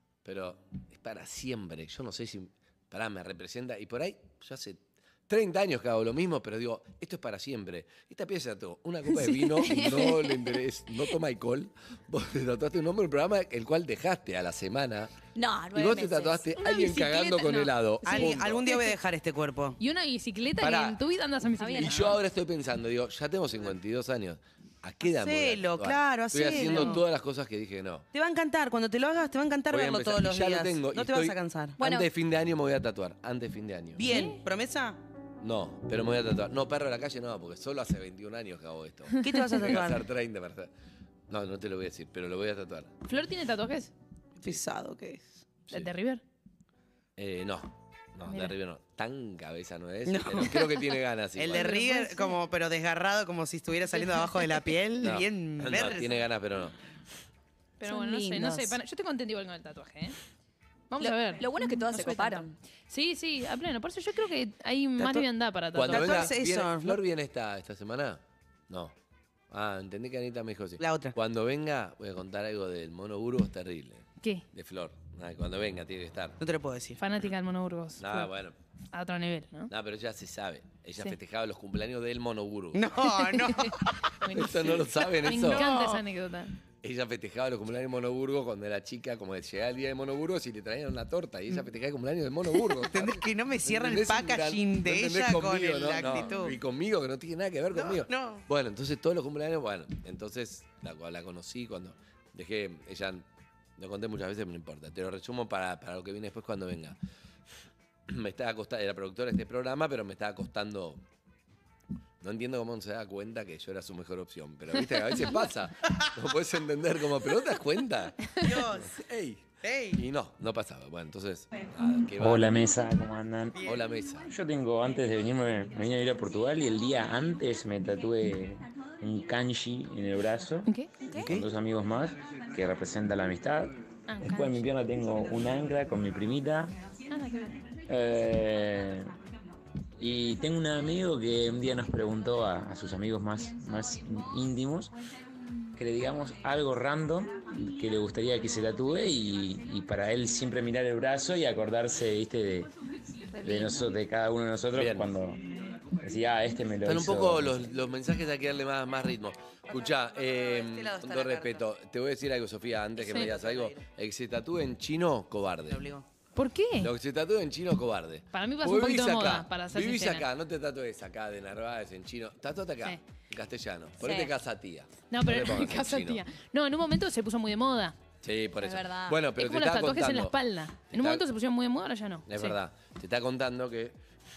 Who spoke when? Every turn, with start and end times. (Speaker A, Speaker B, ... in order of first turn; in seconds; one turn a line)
Speaker A: 0.2-15.1
Speaker B: 9.1-10.5
Speaker C: 15.3-16.8
Speaker A: 15.7-18.7
Speaker B: 16.6-18.9
Speaker D: 18.0-19.8
Speaker B: 19.8-22.2
Speaker A: 20.6-21.0
Speaker C: 21.6-21.9
Speaker A: 21.8-28.1
Speaker D: 25.0-27.0
Speaker D: 28.1-31.8
Speaker A: 29.7-34.1
Speaker C: 31.8-32.1
Speaker D: 34.0-35.0
Speaker B: 34.1-34.4
Speaker A: 35.4-40.7
Speaker D: 39.2-40.0
Speaker A: 41.3-42.9
Speaker B: 43.0-43.9
Speaker D: 44.4-45.3
Speaker B: 45.7-46.2
Speaker A: 47.2-51.8
Speaker D: 50.1-50.5
Speaker D: 51.4-56.2
Speaker B: 51.5-52.4
Speaker B: 54.0-54.6
Speaker A: 55.0-56.7
Speaker B: 57.8-60.1
Speaker C: 57.8-58.6
Speaker B: 60.9-66.3
Speaker C: 61.0-62.5
Speaker D: 65.0-65.2
Speaker A: 65.7-68.9
Speaker D: 65.9-67.0
Speaker A: 69.5-76.4
Speaker D: 70.8-71.1
Speaker B: 74.2-74.5
Speaker D: 76.4-77.0
Speaker B: 77.0-78.3
Speaker A: 78.0-78.5
Speaker B: 78.9-79.7
Speaker A: 79.7-82.8
Speaker D: 82.7-83.9
Speaker B: 83.3-86.5
Speaker A: 84.3-85.7
Speaker D: 85.5-86.0
Speaker A: 86.8-103.2
Speaker D: 92.8-96.5
Speaker D: 97.7-98.4
Speaker A: 103.8-107.0
Speaker A: 108.1-111.0
Speaker A: 112.2-122.7
Speaker D: 118.4-119.0
Speaker D: 119.6-120.0
Speaker E: 122.2-123.6
Speaker A: 123.6-124.3
Speaker E: 124.2-130.7
Speaker B: 130.7-130.9
Speaker D: 131.1-131.4
Speaker E: 131.2-133.7
Speaker B: 134.1-134.6
Speaker E: 134.2-136.7
Speaker B: 137.1-137.6
Speaker E: 137.9-139.2
Speaker E: 140.0-144.9
Speaker E: 145.8-152.7
Speaker E: 153.4-155.4
Speaker A: 154.7-155.1
Speaker E: 156.0-157.7
Speaker A: 156.8-165.8
Speaker D: 159.7-161.7
Speaker D: 163.0-163.8
Speaker B: 163.1-163.3
Speaker D: 165.7-166.0
Speaker B: 166.3-166.9
Speaker A: 166.8-176.2
Speaker B: 168.3-170.3
Speaker C: 174.0-174.3
Speaker B: 175.1-178.0
Speaker A: 178.2-180.4
Speaker C: 178.6-179.2
Speaker B: 179.3-182.6
Speaker A: 180.9-181.2
Speaker A: 182.3-184.0